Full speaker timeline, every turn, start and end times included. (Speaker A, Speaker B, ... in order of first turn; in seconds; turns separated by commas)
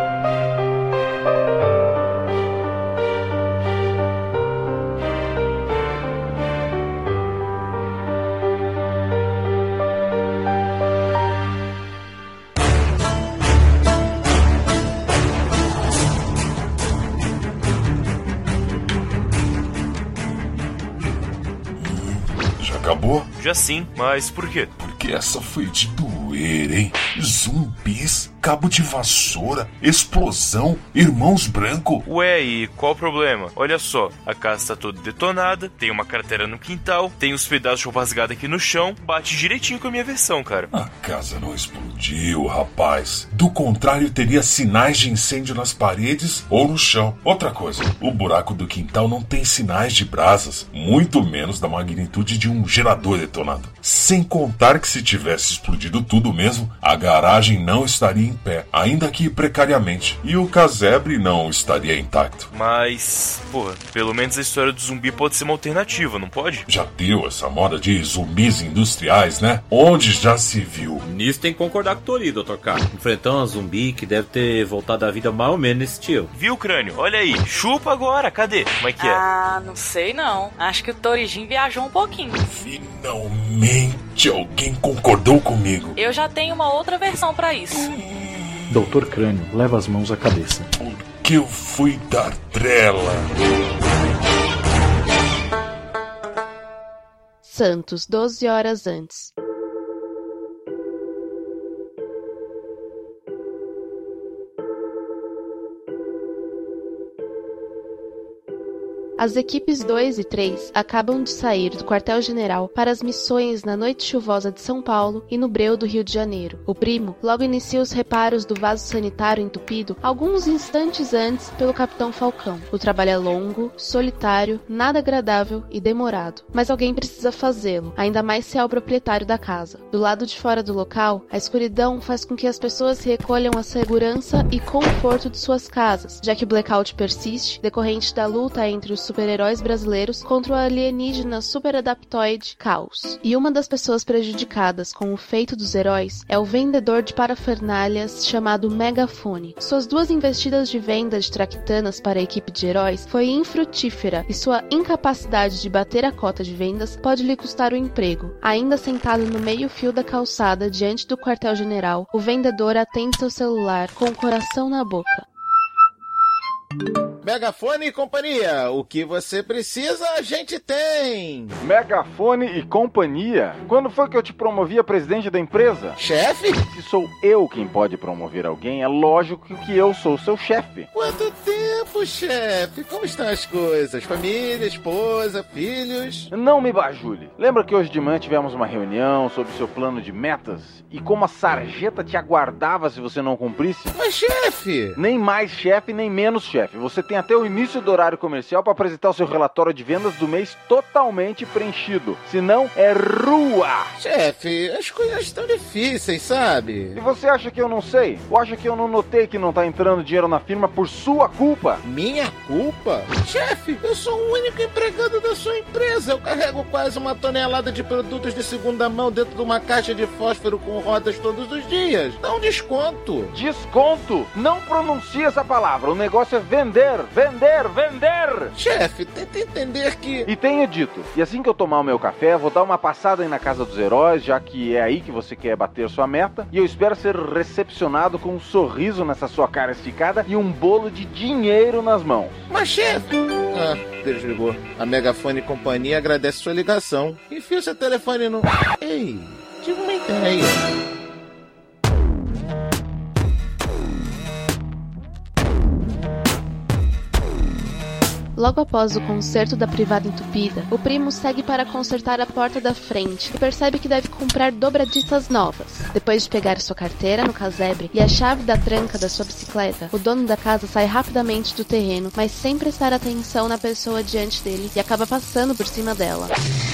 Speaker A: 21.8-23.3, Speaker B: 23.4-24.7, Speaker A: 24.8-32.0, Speaker B: 32.0-40.7, Speaker A: 40.7-62.5, Speaker B: 62.5-66.7, Speaker A: 66.7-71.0, Speaker C: 71.0-76.3, Speaker B: 76.3-79.2, Speaker D: 79.0-82.4, Speaker A: 82.4-86.0, Speaker D: 86.0-87.9, Speaker A: 87.8-88.6, Speaker E: 88.7-90.7, Speaker A: 90.8-93.3, Speaker F: 97.4-99.3, Speaker F: 109.2-165.2, Speaker G: 167.2-171.6, Speaker H: 171.6-176.0, Speaker G: 176.0-176.6, Speaker H: 176.7-180.9, Speaker G: 180.9-186.3, Speaker H: 186.3-193.9, Speaker G: 193.9-195.0, Speaker H: 195.0-203.9, Speaker G: 204.0-207.0, Speaker H: 206.9-211.8, Speaker G: 211.8-223.3, Speaker H: 223.3-228.5, Speaker G: 228.5-230.3, Speaker H: 230.2-242.4, Speaker G: 242.5-250.6, Speaker F: 258.4-276.3